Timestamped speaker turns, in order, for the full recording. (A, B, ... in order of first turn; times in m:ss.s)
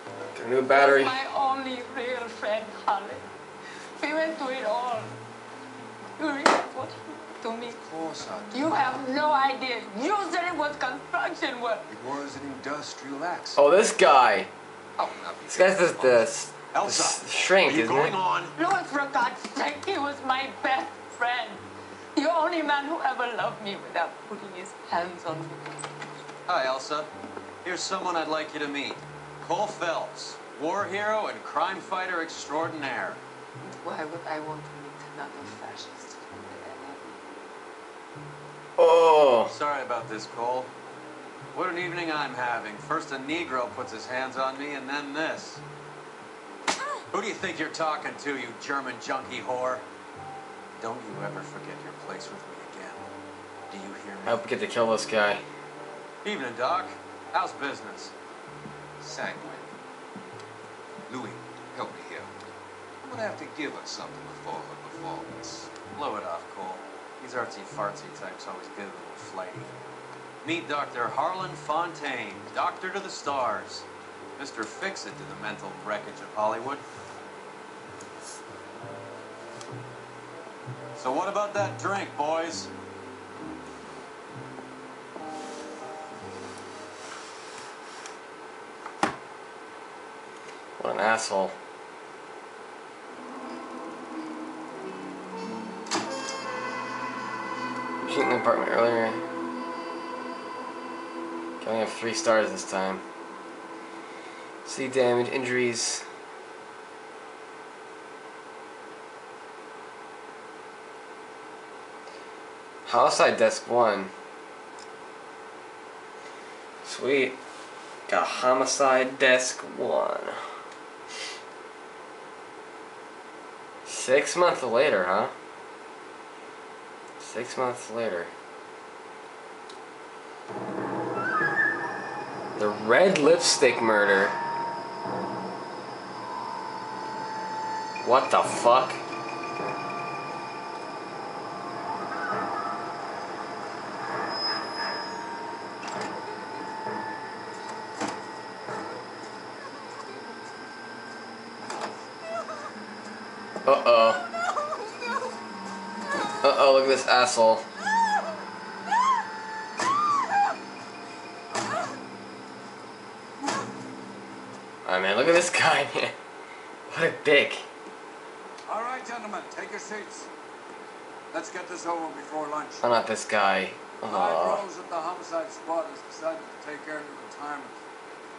0:00.3-0:01.2 A
0:00.7-0:03.2 B
0:04.0-0:05.1 B
0:06.2-0:07.8 B
0:08.2-0:08.5 C
0:08.5-0:11.9 B
0:12.1-0:13.5 C
0:13.6-0:14.5 A
0:15.0-0:18.5 C
0:15.5-0:18.2 A
0:18.6-0:21.6 B
0:22.2-0:25.8 B
0:26.5-0:27.1 D
0:27.6-0:33.2 D
0:33.6-0:37.2 B
0:38.8-0:39.5 A
0:39.5-0:40.7 D
0:41.5-0:45.6 D
0:47.1-0:49.8 D
0:50.8-0:53.1 D
0:53.7-0:54.4 D
0:54.2-0:55.4 A
0:56.2-0:58.1 D
0:59.0-0:59.7 D
1:01.1-1:01.4 D
1:03.0-1:05.7 C
1:05.9-1:09.7 D
1:10.4-1:13.9 D
1:14.4-1:16.8 D
1:21.0-1:22.7 D
1:30.8-1:31.6 A
1:38.0-1:39.2 A
1:41.6-1:43.0 A
1:44.6-1:46.1 A
1:52.9-1:54.1 A
1:56.8-1:57.4 A
1:58.1-2:00.4 A
2:03.9-2:05.3 A
2:07.2-2:08.3 A
2:12.6-2:14.4 A
2:18.0-2:19.0 A
2:33.6-2:34.3 A
2:36.4-2:37.7 A
2:44.8-2:46.2 A
2:46.9-2:47.7 A
2:48.7-2:50.3 E
2:51.3-2:52.8 E
2:52.8-2:54.7 A
2:54.0-2:57.7 E